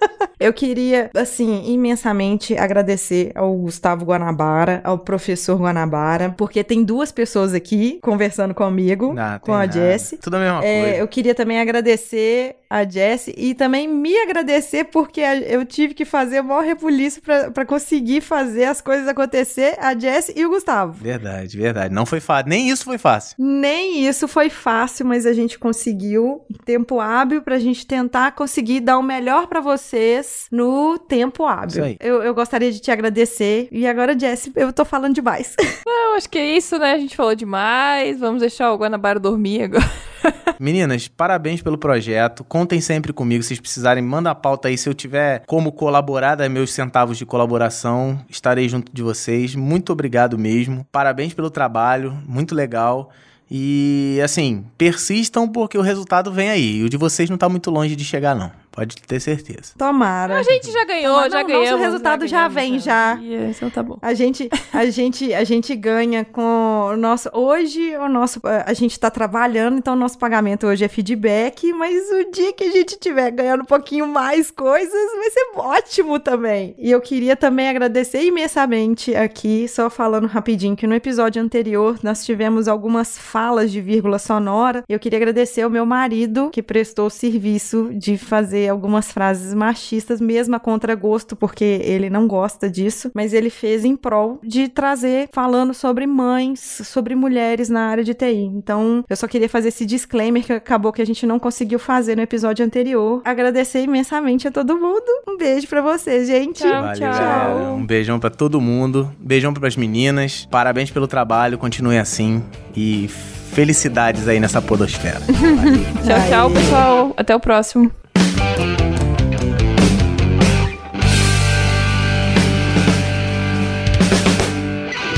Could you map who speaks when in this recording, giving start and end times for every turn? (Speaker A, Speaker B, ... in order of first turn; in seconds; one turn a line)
Speaker A: 0.4-21.0
Speaker B: 9.1-11.0
Speaker B: 21.0-23.3
Speaker A: 23.4-35.6
Speaker B: 31.7-32.0
Speaker C: 35.9-40.3
Speaker B: 40.6-59.7
Speaker A: 59.8-63.2
Speaker C: 60.3-64.0
Speaker B: 60.5-60.8
Speaker A: 64.0-107.6
Speaker C: 106.5-107.8
Speaker B: 106.7-116.0
Speaker C: 115.4-117.9
Speaker A: 116.0-116.8